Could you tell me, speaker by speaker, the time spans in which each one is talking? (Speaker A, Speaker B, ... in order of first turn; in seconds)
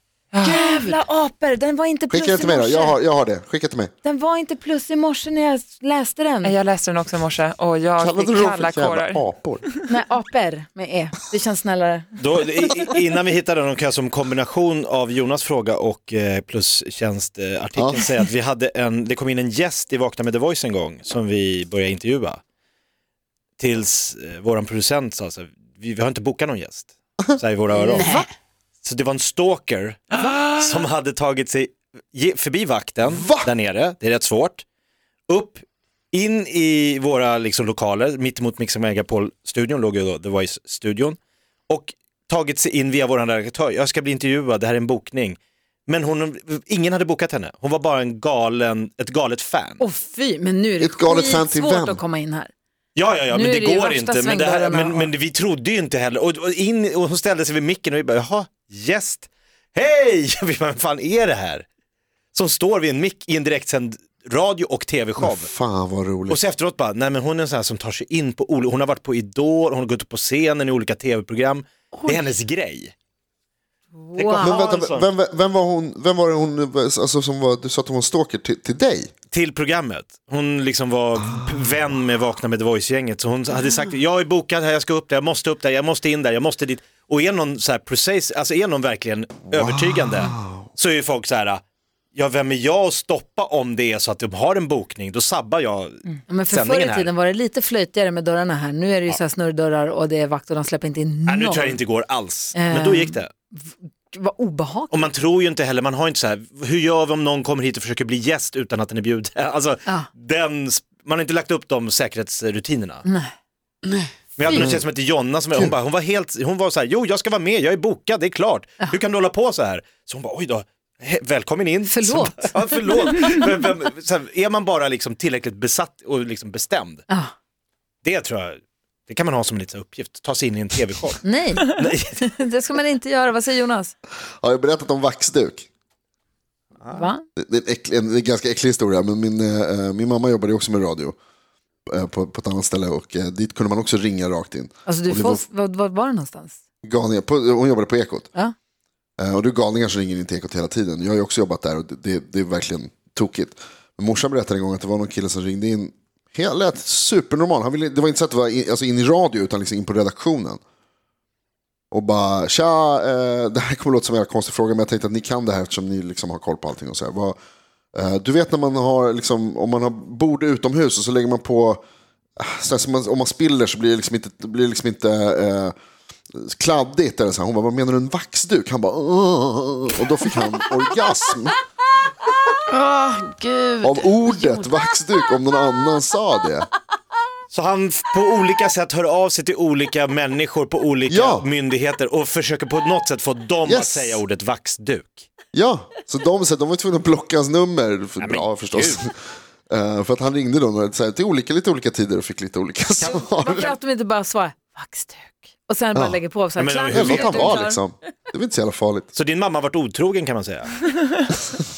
Speaker A: 0.3-1.0, 6.4-9.8
Speaker B: 0.4-3.0, 4.0-6.5, 9.9-12.2, 49.8-52.5, 53.3-55.1, 73.9-74.6, 96.3-101.8, 102.5-105.1, 113.0-113.3, 121.9-122.5, 131.2-133.9, 136.9-137.2, 144.8-146.6, 203.0-207.8
Speaker C: 2.1-3.9, 8.0-9.6, 17.8-18.1, 33.2-33.5, 50.8-52.0, 65.2-66.4, 74.3-79.1, 89.5-90.7, 114.5-114.8, 134.4-135.7, 137.4-141.1, 141.9-145.4, 146.8-148.3, 149.2-160.6, 161.9-167.3, 167.9-171.8, 172.4-175.7, 176.3-181.5, 183.8-186.7, 191.1-191.5, 193.6-194.2, 195.5-199.2, 199.7-203.7, 205.9-206.2, 206.9-209.1
Speaker D: 12.2-22.4, 23.6-28.2, 28.8-34.6, 35.3-41.2, 41.7-49.8, 53.0-61.6, 62.3-65.5, 66.3-72.9, 74.1-75.1, 79.3-91.6, 92.1-97.1, 101.3-103.3, 104.9-113.0, 114.4-127.0, 128.0-132.2, 136.8-137.1, 187.5-195.3, 198.2-199.0, 206.6-207.7, 209.1-210.9
Speaker E: 27.7-28.2, 71.9-72.3, 113.8-114.1, 182.7-184.7